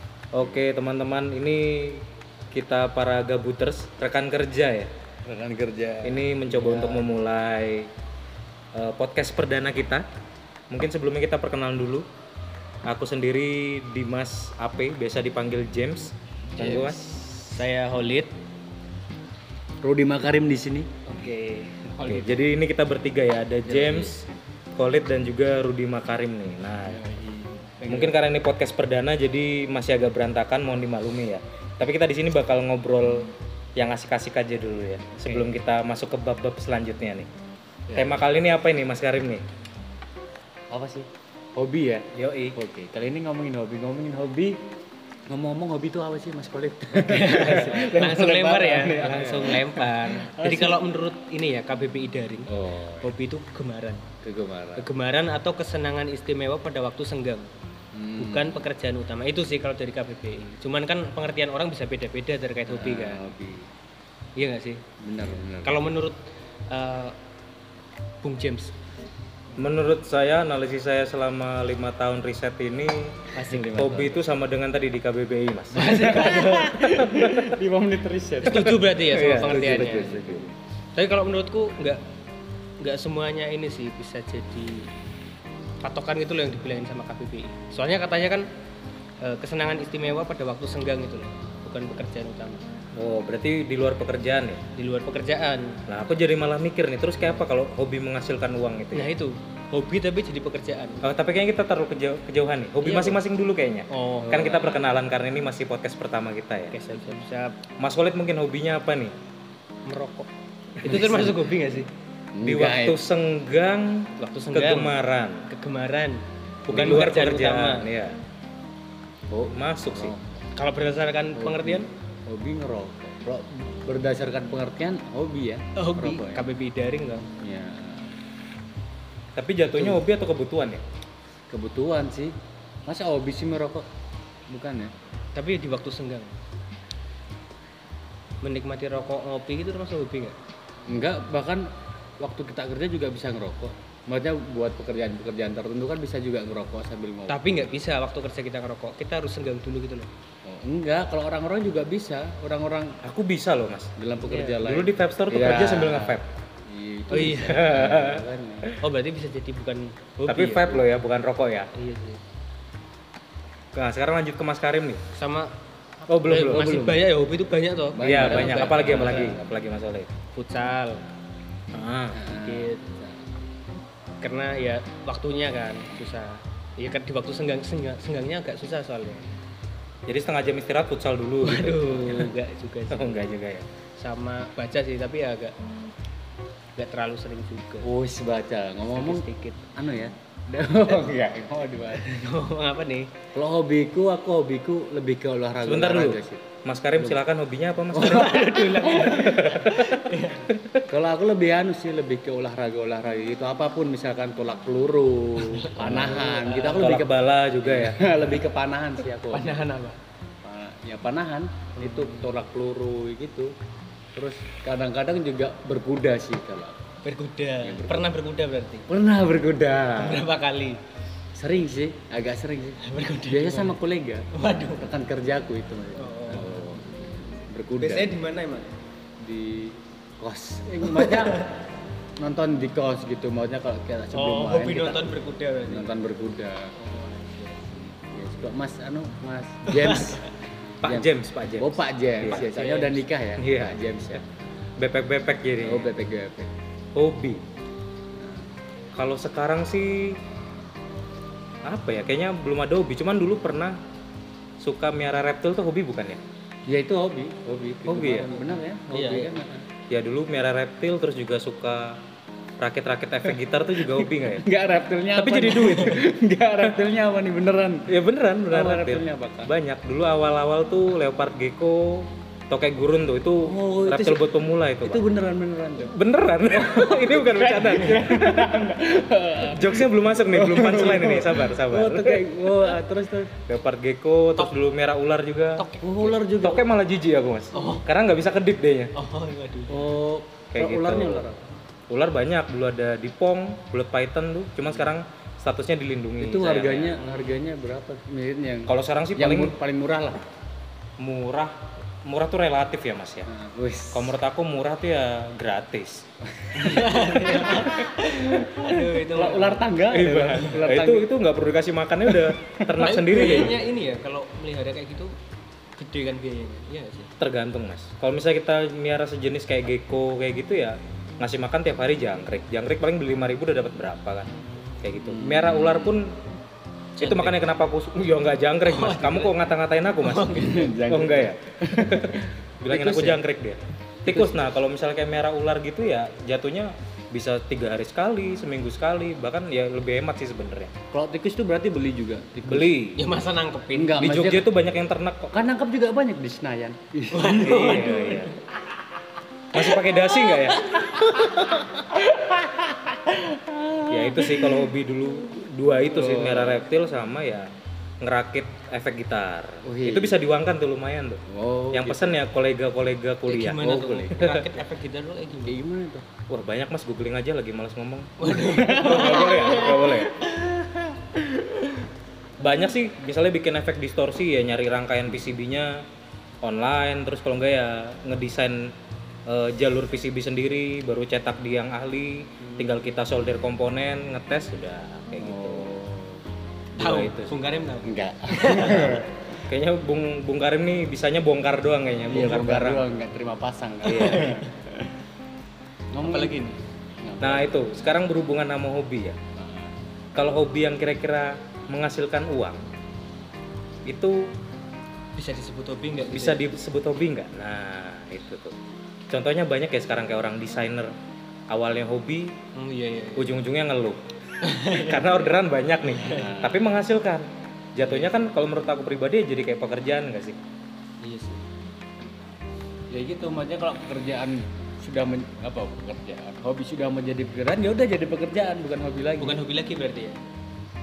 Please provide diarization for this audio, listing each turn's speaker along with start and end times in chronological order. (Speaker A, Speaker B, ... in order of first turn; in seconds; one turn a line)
Speaker A: 0.3-4.9
Speaker B: 5.3-7.1
Speaker A: 6.0-7.9
Speaker A: 8.7-10.0
Speaker A: 10.7-12.1
Speaker A: 12.9-17.5
Speaker B: 16.6-17.0
Speaker C: 17.5-18.3
Speaker B: 19.8-20.9
Speaker C: 21.1-22.4
Speaker A: 22.0-24.2
Speaker C: 23.7-24.1
Speaker A: 24.8-27.0
Speaker B: 26.9-28.2
Speaker A: 27.9-37.3
Speaker B: 35.2-35.5
Speaker B: 37.9-38.2
Speaker A: 38.0-39.4
Speaker B: 40.7-44.5
Speaker A: 42.1-42.5
Speaker B: 45.3-50.8
Speaker C: 47.0-54.0
Speaker B: 52.5-53.1
Speaker B: 54.2-54.9
Speaker C: 54.8-57.5
Speaker B: 57.9-58.6
Speaker C: 58.2-63.3
Speaker B: 62.7-63.7
Speaker C: 64.4-64.8
Speaker B: 65.0-65.8
Speaker C: 65.6-66.2
Speaker C: 66.7-67.2
Speaker C: 68.2-68.8
Speaker A: 69.6-76.3
Speaker C: 73.3-73.8
Speaker B: 73.4-74.2
Speaker C: 75.7-77.4
Speaker B: 75.8-80.5
Speaker A: 76.9-77.5
Speaker C: 78.4-80.2
Speaker A: 78.6-80.4
Speaker C: 81.0-82.0
Speaker C: 82.8-84.9
Speaker C: 85.8-88.5
Speaker C: 89.2-92.6
Speaker A: 93.0-94.6
Speaker C: 94.7-95.8
Speaker A: 95.9-99.1
Speaker C: 98.9-101.0
Speaker A: 101.0-106.8
Speaker C: 102.8-103.2
Speaker C: 103.9-104.6
Speaker B: 104.2-104.8
Speaker C: 106.7-107.6
Speaker A: 107.8-109.1
Speaker C: 109.9-110.3
Speaker C: 110.8-111.9
Speaker B: 110.9-111.4
Speaker B: 112.3-113.0
Speaker A: 112.4-115.4
Speaker C: 114.2-114.9
Speaker C: 115.5-117.8
Speaker A: 116.7-118.2
Speaker B: 116.7-117.2
Speaker B: 119.3-120.2
Speaker A: 119.4-120.1
Speaker C: 120.5-121.9
Speaker B: 121.3-126.4
Speaker C: 125.8-127.2
Speaker B: 127.4-128.1
Speaker A: 129.3-130.8
Speaker B: 131.5-132.3
Speaker B: 132.9-133.8
Speaker B: 134.5-134.9
Speaker C: 135.3-136.3
Speaker C: 138.4-140.3
Speaker B: 140.9-141.7
Speaker B: 142.2-147.4
Speaker C: 147.3-150.1
Speaker B: 150.5-153.0
Speaker A: 153.0-153.9
Speaker B: 154.0-158.7
Speaker C: 154.3-154.6
Speaker A: 154.6-156.3
Speaker C: 157.1-157.6
Speaker A: 157.2-158.8
Speaker C: 158.8-160.9
Speaker A: 160.3-161.7
Speaker C: 161.7-162.2
Speaker A: 163.8-165.0
Speaker C: 165.1-165.5
Speaker B: 166.1-166.9
Speaker A: 166.1-167.0
Speaker C: 166.3-169.4
Speaker B: 167.9-169.4
Speaker A: 168.0-170.1
Speaker C: 170.3-171.0
Speaker A: 171.7-172.2
Speaker B: 172.1-173.2
Speaker C: 172.3-172.8
Speaker C: 174.2-179.3
Speaker A: 180.1-182.3
Speaker C: 181.4-183.3
Speaker A: 182.9-183.7
Speaker C: 184.0-185.5
Speaker C: 186.8-187.9
Speaker B: 187.8-189.2
Speaker C: 188.9-189.6
Speaker B: 189.8-192.2
Speaker C: 192.0-193.1
Speaker B: 193.3-196.4
Speaker A: 195.6-200.8
Speaker B: 197.9-198.2
Speaker C: 197.9-200.5
Speaker B: 200.9-209.7
Speaker C: 205.4-206.8
Speaker A: 205.8-208.4
Speaker C: 209.3-210.0
Speaker B: 210.4-213.5
Speaker C: 211.8-212.4
Speaker B: 214.2-216.8
Speaker C: 217.0-218.8
Speaker B: 217.6-218.1
Speaker B: 218.9-220.2
Speaker C: 220.0-220.8
Speaker B: 221.3-228.1
Speaker C: 222.8-223.8
Speaker C: 224.3-224.9
Speaker C: 226.0-226.6
Speaker C: 227.8-228.7
Speaker B: 229.2-231.5
Speaker C: 230.9-231.5
Speaker B: 232.2-236.7
Speaker C: 234.1-236.1
Speaker C: 236.8-237.8
Speaker B: 237.9-240.3
Speaker C: 239.7-240.3
Speaker A: 240.8-242.5
Speaker B: 240.8-244.2
Speaker C: 242.2-243.0
Speaker A: 243.4-244.2
Speaker A: 244.8-245.9
Speaker B: 245.6-246.5
Speaker A: 246.9-247.4
Speaker B: 248.2-248.5
Speaker A: 248.9-250.2
Speaker A: 251.7-253.8
Speaker A: 254.6-256.2
Speaker B: 256.7-259.7
Speaker A: 257.9-258.3
Speaker C: 258.1-259.4
Speaker A: 259.9-261.9
Speaker A: 262.6-264.4
Speaker B: 263.9-267.9
Speaker A: 265.1-266.1
Speaker A: 267.9-275.0
Speaker B: 268.5-269.5
Speaker B: 273.5-274.3
Speaker B: 274.8-275.9
Speaker A: 275.9-278.6
Speaker B: 276.6-283.3
Speaker A: 279.4-282.8
Speaker A: 283.5-285.6
Speaker C: 285.6-286.2
Speaker B: 285.8-286.6
Speaker A: 286.4-288.9
Speaker C: 287.5-287.8
Speaker C: 288.9-289.9
Speaker B: 289.7-291.4
Speaker A: 290.5-291.2
Speaker A: 291.9-297.0
Speaker B: 294.7-294.9
Speaker B: 296.2-300.2
Speaker C: 297.0-297.4
Speaker A: 298.7-299.6
Speaker A: 301.0-301.5
Speaker A: 302.1-303.3
Speaker B: 303.3-304.1
Speaker A: 303.9-306.0
Speaker B: 306.4-311.1
Speaker C: 306.5-309.7
Speaker A: 309.9-313.6
Speaker B: 312.1-312.8
Speaker C: 312.8-315.1
Speaker C: 315.8-317.1
Speaker A: 317.2-324.3
Speaker A: 324.8-326.1
Speaker B: 325.0-325.9
Speaker C: 327.0-327.4
Speaker A: 327.0-340.7
Speaker C: 328.6-329.4
Speaker C: 330.0-330.8
Speaker B: 330.3-333.2
Speaker B: 334.1-334.4
Speaker B: 340.9-342.8
Speaker A: 342.5-343.0
Speaker C: 343.0-344.0
Speaker B: 343.7-344.5
Speaker A: 344.0-345.3
Speaker B: 345.3-347.9
Speaker C: 347.1-348.4
Speaker A: 347.3-348.3
Speaker A: 349.5-351.6
Speaker C: 350.2-350.8
Speaker B: 351.0-354.7
Speaker A: 353.9-357.5
Speaker B: 355.8-356.6
Speaker A: 358.0-363.6
Speaker B: 359.6-360.2
Speaker B: 361.3-362.2
Speaker C: 363.3-365.6
Speaker B: 363.6-364.2
Speaker A: 364.2-364.4
Speaker B: 365.4-366.1
Speaker A: 366.3-370.1
Speaker C: 368.2-370.1
Speaker B: 368.3-369.9
Speaker A: 372.4-375.7
Speaker A: 376.4-378.7
Speaker A: 379.3-385.8
Speaker B: 385.2-386.2
Speaker A: 386.8-387.4
Speaker C: 386.8-389.0
Speaker B: 387.8-389.1
Speaker A: 389.4-392.9
Speaker B: 392.1-394.5
Speaker A: 393.9-394.3
Speaker C: 393.9-394.5
Speaker B: 395.9-396.4
Speaker C: 396.0-396.6
Speaker B: 397.0-397.6
Speaker A: 397.2-399.2
Speaker B: 399.4-399.7
Speaker A: 400.1-402.6
Speaker A: 403.9-404.2
Speaker C: 405.1-406.5
Speaker A: 406.0-408.5
Speaker A: 409.1-410.9
Speaker A: 411.5-412.3
Speaker C: 412.5-413.4
Speaker A: 413.1-414.0
Speaker C: 414.4-415.3
Speaker A: 414.6-420.4
Speaker C: 416.0-416.3
Speaker B: 416.1-416.6
Speaker C: 417.8-418.4
Speaker C: 421.0-421.4
Speaker B: 422.9-429.4
Speaker C: 429.2-430.2